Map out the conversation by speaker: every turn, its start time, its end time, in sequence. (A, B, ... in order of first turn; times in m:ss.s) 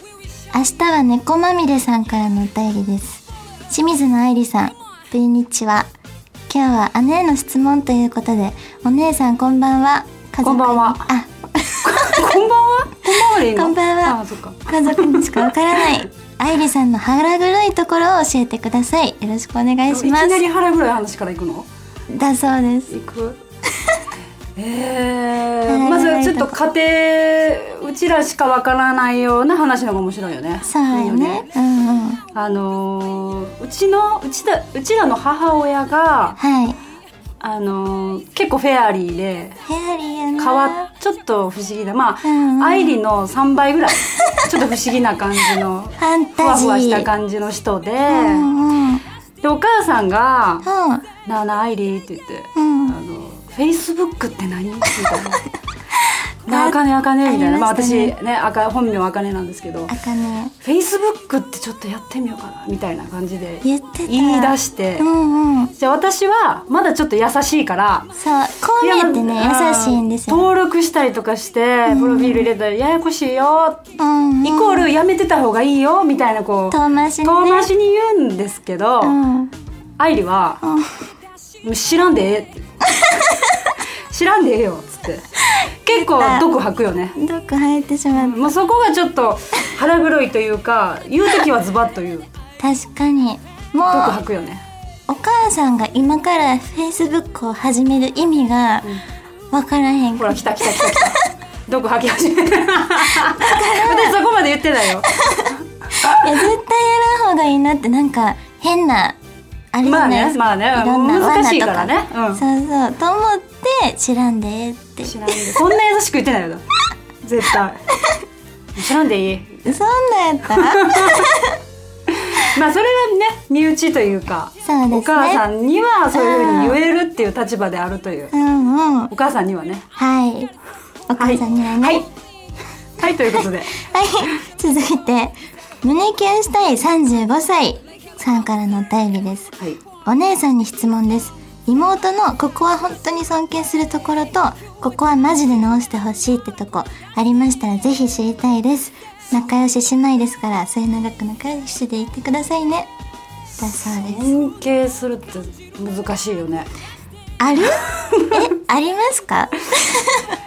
0:00.5-0:05.9 A
0:06.5-0:12.4 A
0:10.4-0:11.1 B
0:11.8-0:15.9 B
0:13.1-0:20.4 A
0:19.9-0:21.7 B
0:22.1-0:22.9 A
0:22.9-0:23.4 B
0:23.7-0:24.0 A
0:24.6-0:31.5 B
0:25.7-0:26.6 A
0:30.6-0:32.2 A
0:32.3-0:36.4 B
0:36.4-0:36.8 A
0:37.4-0:39.6 B
0:39.7-0:40.9 A
0:40.4-0:48.5 B
0:42.2-0:43.0 A
0:46.0-0:47.1 A
0:48.1-0:49.0 A
0:49.4-0:50.7 B
0:50.6-0:51.0 A
0:51.2-0:55.4 B
0:52.6-0:53.0 A
0:56.4-0:59.9 B
0:56.5-0:58.1 A
0:59.9-1:00.5 A
1:00.6-1:05.1 B
1:03.6-1:05.7 A
1:05.8-1:08.1 B
1:08.2-1:10.5 A
1:08.8-1:13.8 B
1:11.9-1:12.5 A
1:14.0-1:14.9 A
1:14.4-1:19.2 B
1:16.7-1:17.7 A
1:19.0-1:19.5 A
1:20.0-1:20.6 B
1:20.6-1:21.1 A
1:21.6-1:22.7 B
1:24.1-1:27.2 B
1:26.2-1:26.5 A
1:27.2-1:28.5 A
1:28.2-1:32.3 B
1:32.6-1:34.2 A
1:33.8-1:34.6 B
1:35.1-1:38.9 A
1:39.5-1:41.2 A
1:40.2-1:46.5 B
1:43.2-1:44.2 A
1:46.0-1:49.2 A
1:49.7-1:55.4 A
1:49.8-1:52.4 B
1:55.0-1:56.6 B
1:57.2-1:57.9 B
1:58.8-1:59.7 B
1:59.6-2:01.6 A
2:00.5-2:01.3 B
2:02.1-2:08.3 B
2:04.6-2:05.4 A
2:06.1-2:06.8 A
2:08.3-2:09.1 A
2:09.1-2:09.9 B
2:10.0-2:10.5 A
2:11.1-2:12.0 A
2:11.2-2:12.0 B
2:13.0-2:13.8 B
2:13.3-2:32.9 A
2:33.5-2:36.7 B
2:33.6-2:34.3 A
2:37.4-2:40.4 A
2:37.6-2:38.3 B